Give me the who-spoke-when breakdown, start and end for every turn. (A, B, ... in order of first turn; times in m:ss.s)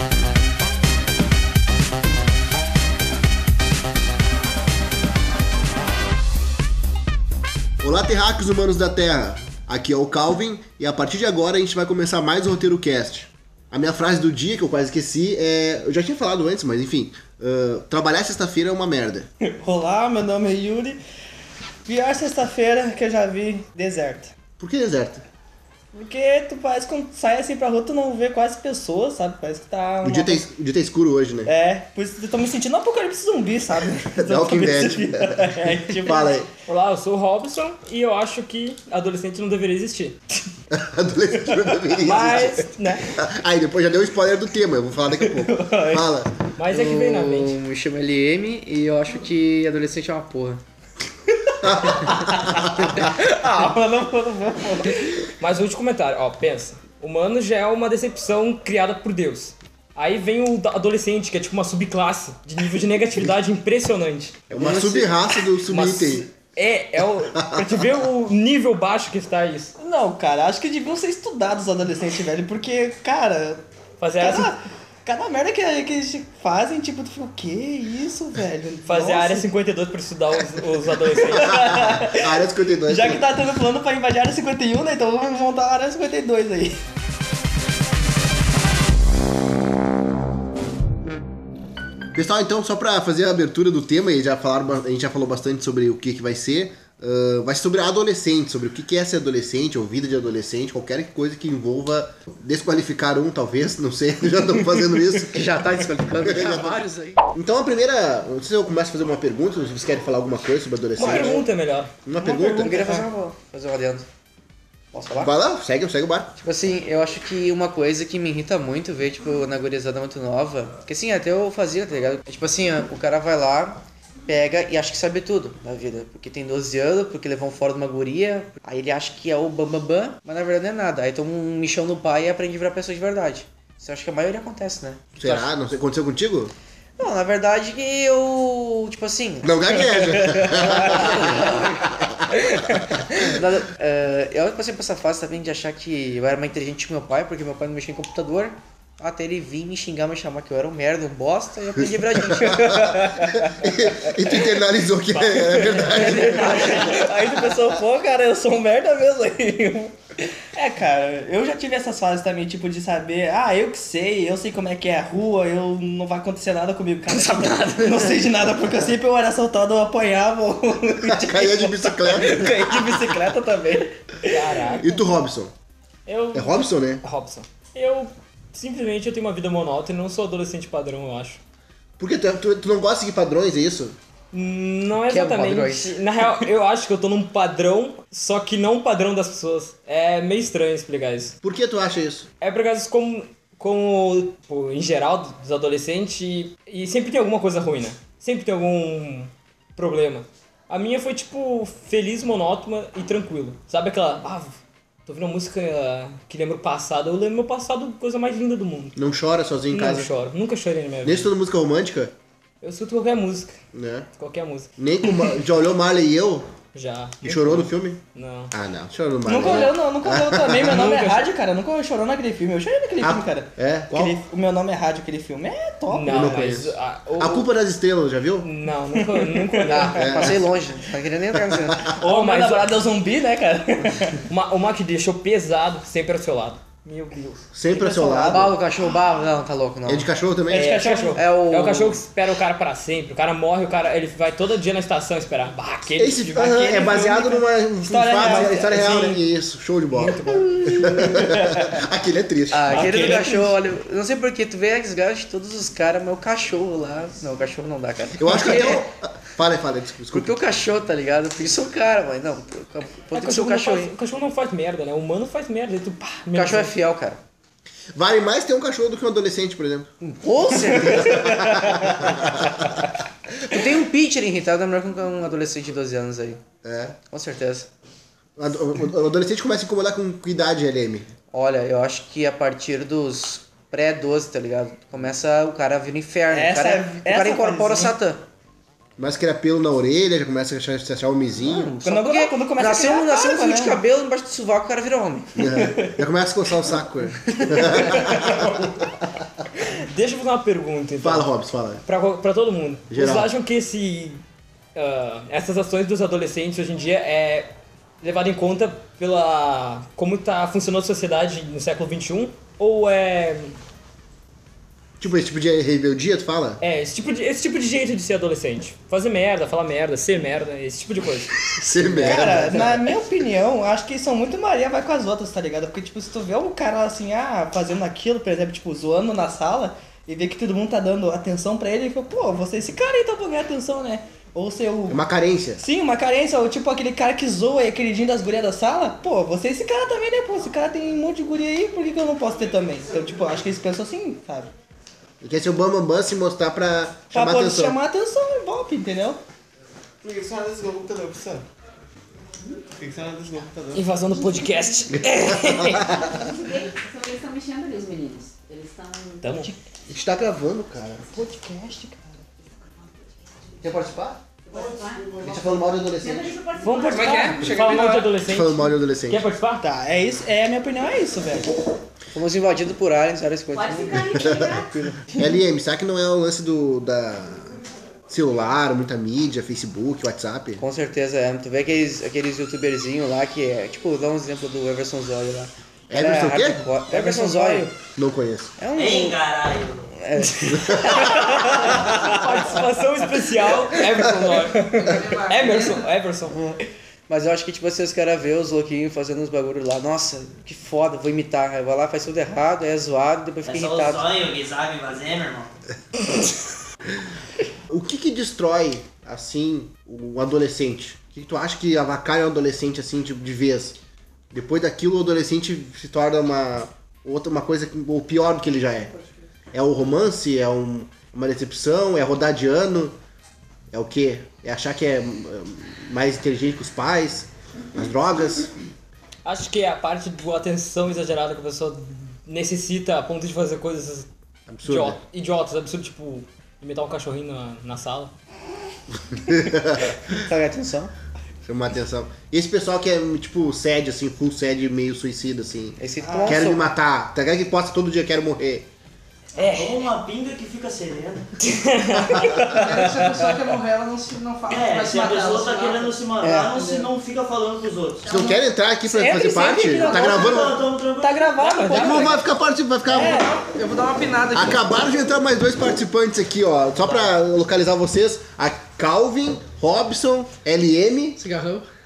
0:07.8-0:19.3 A
0:19.4-0:21.0 B
0:21.8-0:24.3 B
0:24.6-0:25.2 A
0:25.9-0:30.4 B
0:30.0-0:31.5 A
0:31.5-0:36.4 B
0:34.2-0:36.5 A
0:36.6-0:40.2 C
0:40.7-0:46.3 A
0:42.0-0:43.0 C
0:45.2-0:46.1 B
0:46.6-0:47.6 C
0:46.6-0:50.6 D
0:51.6-0:53.0 A
0:51.9-0:52.3 B
0:52.9-0:55.0 B
0:55.4-1:05.1 C
1:04.5-1:06.2 A
1:05.6-1:09.7 C
1:07.4-1:07.6 A
1:09.8-1:13.6 B
1:14.0-1:14.6 C
1:14.2-1:19.4 B
1:18.8-1:21.7 C
1:21.4-1:26.8 B
1:21.4-1:23.3 A
1:32.1-1:45.5 A
1:45.2-1:47.2 D
1:46.2-1:46.8 A
1:47.3-1:51.4 A
1:51.0-1:53.1 C
1:51.0-1:51.4 D
1:52.0-1:53.0 A
1:52.2-1:54.1 D
1:54.9-1:55.3 D
1:55.2-1:56.3 A
1:56.4-2:15.5 D
2:15.2-2:16.5 A
2:17.0-2:19.8 D
2:19.4-2:21.7 A
2:20.5-2:22.0 D
2:23.1-2:32.9 D
2:32.6-2:33.5 B
2:33.5-2:36.6 A
2:35.1-2:36.9 C
2:35.8-2:54.6 B
2:47.3-2:47.8 C
2:51.0-2:53.0 A
2:54.3-2:55.0 C
2:54.8-2:55.5 A
2:56.0-3:01.4 C
2:56.3-2:57.0 A
3:02.0-3:04.0 A
3:04.3-3:11.4 C
3:05.1-3:06.3 D
3:11.4-3:12.3 A
3:12.4-3:29.0 C
3:29.0-3:30.1 A
3:29.7-3:31.3 C
3:31.0-3:32.1 A
3:32.6-3:33.5 C
3:33.7-3:34.0 A
3:34.2-3:34.7 C
3:34.8-3:36.5 A
3:36.7-3:38.5 C
3:37.2-3:38.0 A
3:38.5-3:40.8 A
3:39.2-3:46.2 B
3:40.6-3:41.3 C
3:43.0-3:44.2 A
3:45.9-3:47.5 C
3:46.1-3:48.5 A
3:48.4-3:50.3 C
3:49.0-3:49.8 B
3:49.7-3:51.8 D
3:49.9-3:50.4 A
3:52.0-3:54.2 B
3:52.0-3:52.8 C
3:54.3-3:57.4 C
3:57.5-3:58.5 A
3:57.7-3:58.5 B
3:58.3-4:00.1 D
3:59.9-4:00.8 A
4:00.5-4:01.2 B
4:00.5-4:06.7 C
4:01.1-4:02.0 D
4:06.0-4:12.8 A
4:06.4-4:09.2 B
4:09.9-4:11.4 C
4:12.5-4:18.9 D
4:12.7-4:13.5 C
4:12.8-4:13.2 B
4:18.2-4:20.4 A
4:20.1-4:23.9 D
4:23.1-4:26.7 C
4:26.3-4:27.2 D
4:27.9-4:29.9 A
4:30.0-4:31.4 D
4:30.8-4:32.6 A
4:33.4-4:36.4 D
4:36.6-4:37.0 A
4:37.0-4:37.7 D
4:38.4-4:41.1 A
4:41.3-4:48.2 D
4:46.3-4:47.9 B
4:49.0-4:51.8 A
4:51.4-4:55.6 D
4:51.8-4:53.8 B
4:55.4-4:58.7 A
4:58.2-4:58.6 C
4:59.7-5:01.3 C
5:01.0-5:01.8 A
5:01.8-5:04.2 C
5:02.9-5:03.3 A
5:04.7-5:07.5 C
5:08.0-5:13.6 C
5:15.0-5:16.6 A
5:16.6-5:22.8 C
5:21.5-5:22.8 A
5:21.9-5:35.0 B
5:34.9-5:35.6 A
5:35.6-5:44.5 B
5:45.2-5:47.8 A
5:47.1-5:49.2 B
5:50.0-5:51.4 B
5:52.8-5:53.8 B
5:53.7-5:56.0 C
5:55.0-5:56.0 A
5:55.9-5:59.2 E
5:59.2-5:59.5 C
5:59.3-5:59.5 B
5:59.9-6:01.0 A
6:01.1-6:02.2 B
6:02.8-6:03.1 E
6:03.6-6:04.2 A
6:04.4-6:05.3 E
6:05.2-6:06.4 A
6:05.9-6:07.4 E
6:06.6-6:09.6 C
6:06.8-6:08.2 F
6:08.2-6:09.2 A
6:09.6-6:11.5 B
6:12.1-6:14.2 D
6:13.5-6:14.7 E
6:14.1-6:14.6 A
6:15.1-6:17.5 A
6:18.1-6:20.6 A
6:20.6-6:27.7 D
6:25.9-6:26.7 A
6:26.9-6:27.7 B
6:27.8-6:28.5 A
6:28.6-6:29.2 D
6:28.7-6:29.9 G
6:29.9-6:31.2 D
6:30.5-6:31.4 A
6:31.1-6:36.6 C
6:34.7-6:35.8 F
6:37.1-6:44.1 D
6:43.4-6:45.5 G
6:47.7-6:53.8 A
6:54.3-6:58.9 A
6:59.5-7:02.9 A
7:03.7-7:08.5 A
7:09.2-7:14.1 C
7:14.5-7:15.0 A
7:14.6-7:18.1 C
7:19.2-7:20.0 A
7:20.1-7:20.9 D
7:21.4-7:28.7 A
7:25.8-7:26.7 D
7:26.0-7:26.4 B
7:29.4-7:29.7 C
7:29.4-7:31.4 G
7:31.4-7:33.3 C
7:31.9-7:32.6 A
7:32.5-7:36.9 F
7:34.5-7:38.1 G
7:36.2-7:36.6 D
7:38.1-7:40.6 A
7:38.1-7:42.2 B
7:39.8-7:41.3 G
7:41.4-7:42.2 C
7:41.7-7:43.3 A
7:42.9-7:43.3 B
7:43.0-7:44.7 F
7:44.3-7:51.2 A
7:51.2-7:51.6 F